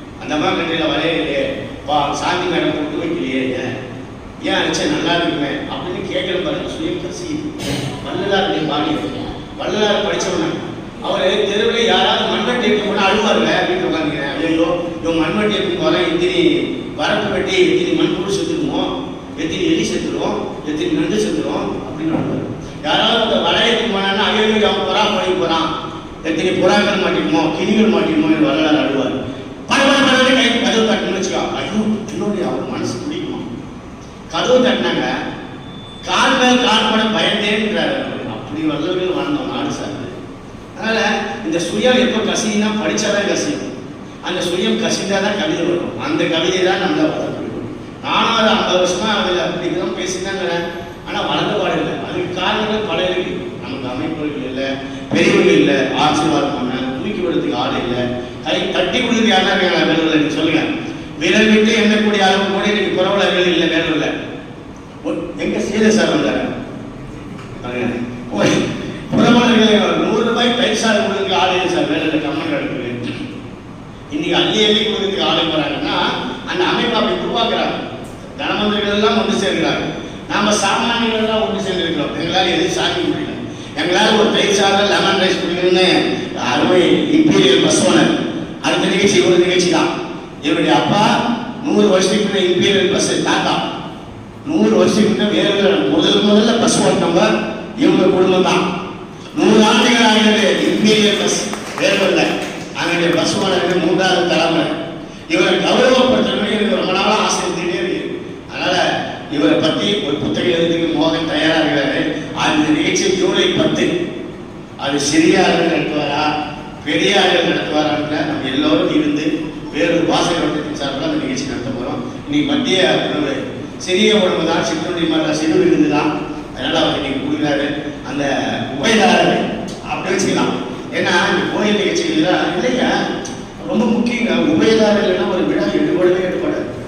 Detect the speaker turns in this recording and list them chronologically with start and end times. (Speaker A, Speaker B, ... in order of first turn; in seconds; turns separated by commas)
Speaker A: 0.2-3.7, Speaker A: 4.4-25.7, Speaker A: 26.2-29.2, Speaker A: 29.7-33.5, Speaker A: 34.3-35.1, Speaker A: 36.0-40.1, Speaker A: 40.7-43.7, Speaker A: 44.2-60.6, Speaker A: 61.2-64.1, Speaker A: 65.0-66.5, Speaker A: 67.6-73.0, Speaker A: 74.1-77.8, Speaker A: 78.4-89.9, Speaker A: 90.4-93.6, Speaker A: 94.4-98.6, Speaker A: 99.3-104.7, Speaker A: 105.3-113.9, Speaker A: 114.8-116.3, Speaker A: 116.8-132.9, Speaker A: 133.6-136.7